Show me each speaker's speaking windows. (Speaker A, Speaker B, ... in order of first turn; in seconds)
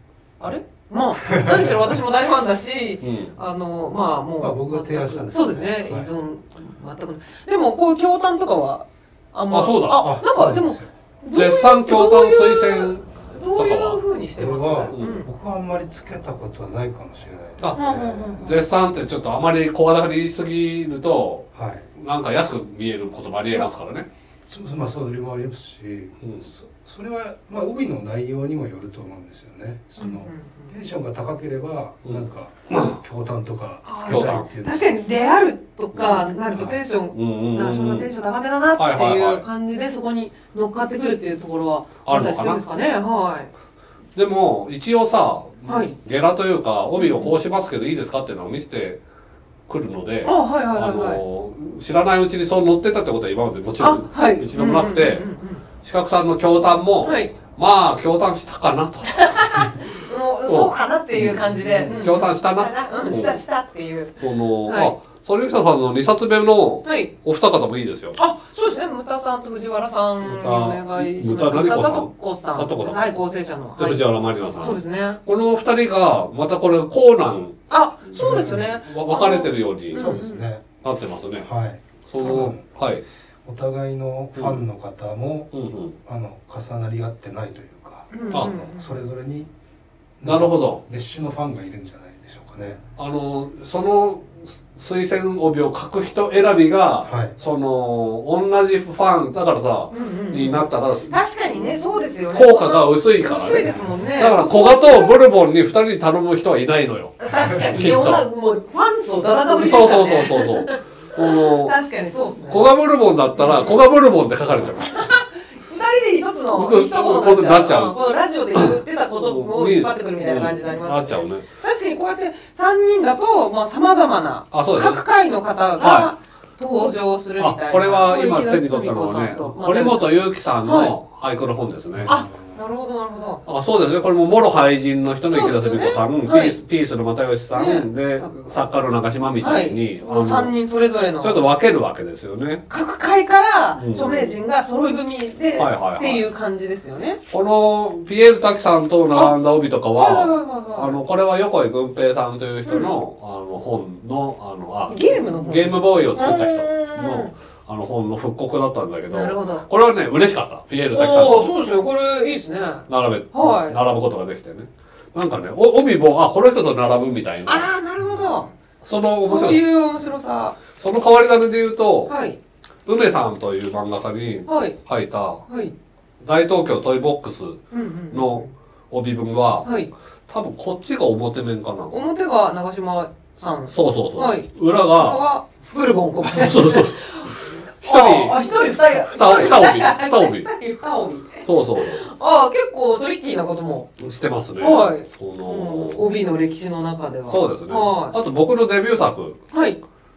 Speaker A: 0.4-15.3, 17.8-18.6, 30.0-30.7, 33.9-43.5, 45.7-45.9, 47.0-47.4, 50.2-51.2, 53.8-55.6, 57.0-57.3, 59.1-64.9, 66.8-67.1, 68.2-74.0, 74.6-75.2, 77.7-80.5, 88.1-89.0, 99.9-105.2, 107.2-112.7, 113.3-113.8, 115.0-130.9, 132.1-133.4, 135.2-136.6, 137.5-138.5, 139.4-141.4, 142.7-147.2, 149.9-151.0, 152.7-153.0, 154.9-157.3, 159.1-159.7, 160.9-163.8, 167.5-168.5, 169.2-170.6, 172.1-172.4, 174.5-174.8, 175.5-175.7, 177.7-178.5, 179.6-179.9, 181.9-193.9, 194.6-198.2, 199.5-199.8
Speaker B: 1.2-1.9, 4.4-6.1, 9.9-10.9, 14.4-18.3, 21.5-21.9, 24.4-34.8, 78.2-78.5, 79.9-80.7, 81.4-82.6, 83.4-85.5, 86.0-89.5, 90.2-92.8, 97.0-97.3, 103.7-104.0, 131.9-132.6
Speaker C: 3.0-3.4, 9.5-10.1, 11.3-14.0, 14.9-15.2, 17.6-24.1, 26.2-26.5, 32.0-33.0, 34.1-34.5, 35.9-36.3, 37.1-38.1, 38.8-39.4, 42.1-42.6, 44.1-49.0, 49.7-55.3, 55.8-59.8, 60.5-63.4, 64.2-68.2, 70.2-73.1, 73.8-80.1, 80.8-81.5, 82.1-83.0, 85.5-86.0, 90.2-90.8, 93.0-101.1, 102.3-108.3, 109.5-111.7, 112.5-115.0, 116.5-118.0, 118.5-121.5, 124.5-125.0, 125.8-126.1, 127.4-132.2, 133.5-140.5, 141.2-142.7, 143.8-144.3, 145.6-146.3, 147.3-161.5, 162.9-167.7, 168.8-169.6, 170.8-172.1, 172.9-175.4, 176.2-179.7, 180.3-182.0, 183.7-185.3, 186.3-190.5, 191.4-192.0, 194.0-196.0, 197.3-199.4